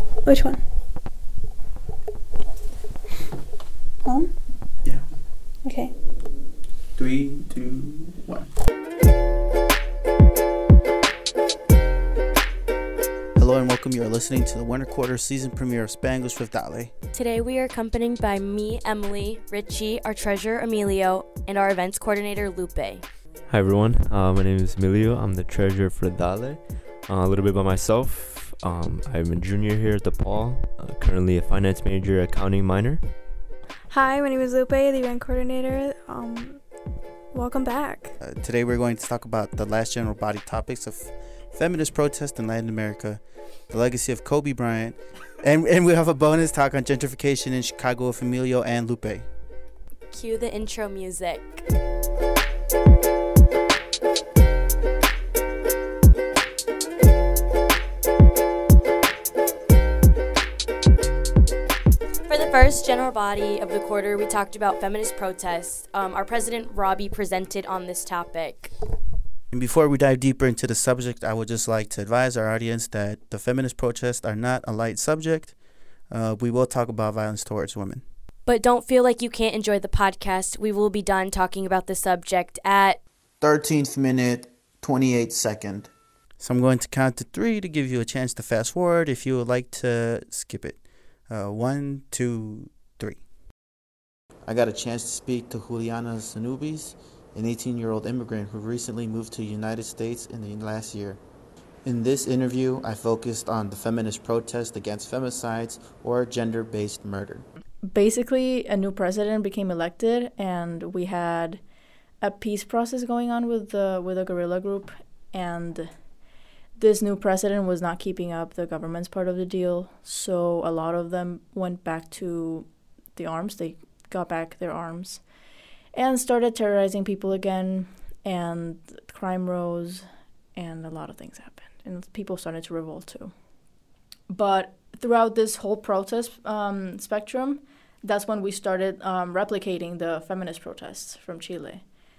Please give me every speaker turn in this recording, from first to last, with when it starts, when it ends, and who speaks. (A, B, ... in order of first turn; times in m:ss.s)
0:00.2-0:00.6 A
0:04.0-0:04.3 A
0:05.6-0:05.9 A
0:07.0-0:08.5 B
0:13.4-0:16.9 B
0:17.1-0:23.0 C
0:23.5-0:33.0 D
0:33.9-0:36.6 A
0:37.3-0:38.2 A
0:38.2-0:49.3 B
0:50.1-0:51.6 C
1:02.3-1:08.7 C
1:09.5-1:15.6 B
1:16.1-1:18.0 B
1:18.5-1:23.0 C
1:23.4-1:33.2 B
1:34.4-1:41.2 B
1:41.8-1:47.5 B
1:47.9-1:51.6 E
1:52.2-1:55.9 E
1:56.8-2:05.2 E
2:05.9-2:13.3 E
2:14.3-2:21.9 E